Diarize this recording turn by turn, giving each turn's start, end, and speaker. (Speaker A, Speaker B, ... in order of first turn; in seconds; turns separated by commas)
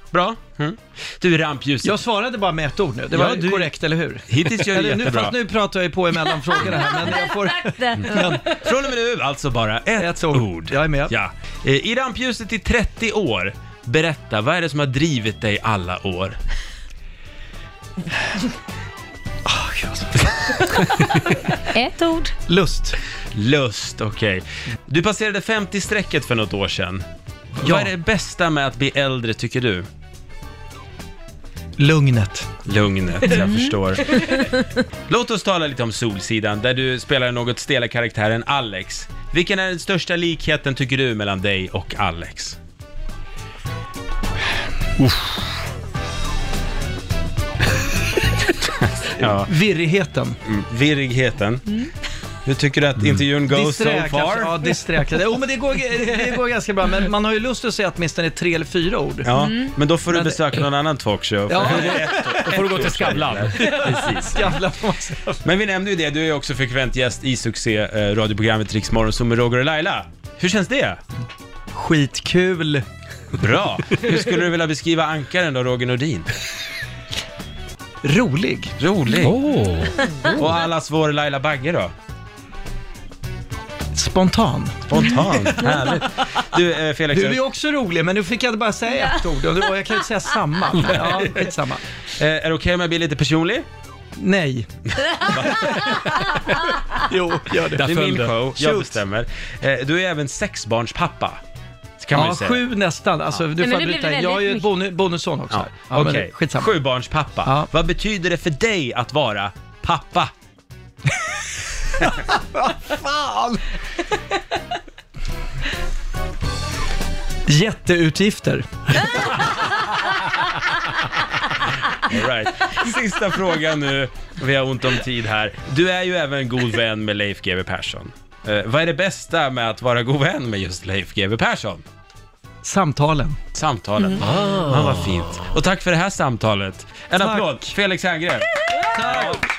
Speaker A: 0.1-1.9, Speaker B: 1.8-8.5, Speaker A: 3.1-3.7, Speaker A: 4.3-5.4, Speaker C: 6.2-8.6, Speaker A: 8.1-16.4, Speaker B: 10.0-11.1, Speaker B: 19.4-21.3, Speaker C: 21.7-22.3, Speaker B: 22.5-23.0, Speaker A: 23.3-27.0, Speaker A: 27.6-29.9, Speaker B: 27.6-27.9, Speaker B: 31.8-32.5, Speaker A: 32.6-34.3, Speaker C: 33.3-34.7, Speaker A: 35.1-42.6, Speaker A: 48.8-49.5, Speaker B: 49.2-50.4, Speaker A: 50.5-51.7, Speaker A: 52.4-54.5, Speaker B: 53.5-59.3, Speaker A: 59.2-64.5, Speaker C: 59.3-59.8, Speaker B: 60.1-60.5, Speaker B: 61.5-65.4, Speaker D: 61.6-64.1, Speaker A: 65.4-71.0, Speaker B: 71.7-72.8, Speaker A: 73.3-76.3, Speaker B: 78.0-78.7, Speaker A: 78.8-79.4, Speaker D: 79.2-80.4, Speaker C: 80.0-80.4, Speaker A: 80.3-81.9, Speaker B: 83.9-86.0, Speaker A: 84.9-87.4, Speaker C: 85.0-85.9, Speaker B: 87.1-91.8, Speaker A: 90.8-91.1, Speaker A: 92.1-93.7, Speaker B: 94.2-96.2, Speaker A: 95.2-96.0, Speaker B: 96.8-97.8, Speaker D: 97.7-99.0, Speaker A: 97.8-101.4, Speaker A: 102.0-102.6, Speaker B: 102.1-106.7, Speaker C: 103.6-104.7, Speaker A: 105.5-110.3, Speaker B: 107.4-107.7, Speaker B: 112.1-113.6, Speaker B: 117.5-119.5, Speaker A: 121.9-131.8, Speaker B: 132.6-133.4, Speaker A: 133.5-139.4, Speaker C: 134.0-134.2, Speaker D: 134.2-135.5, Speaker B: 137.1-137.6, Speaker B: 138.8-139.5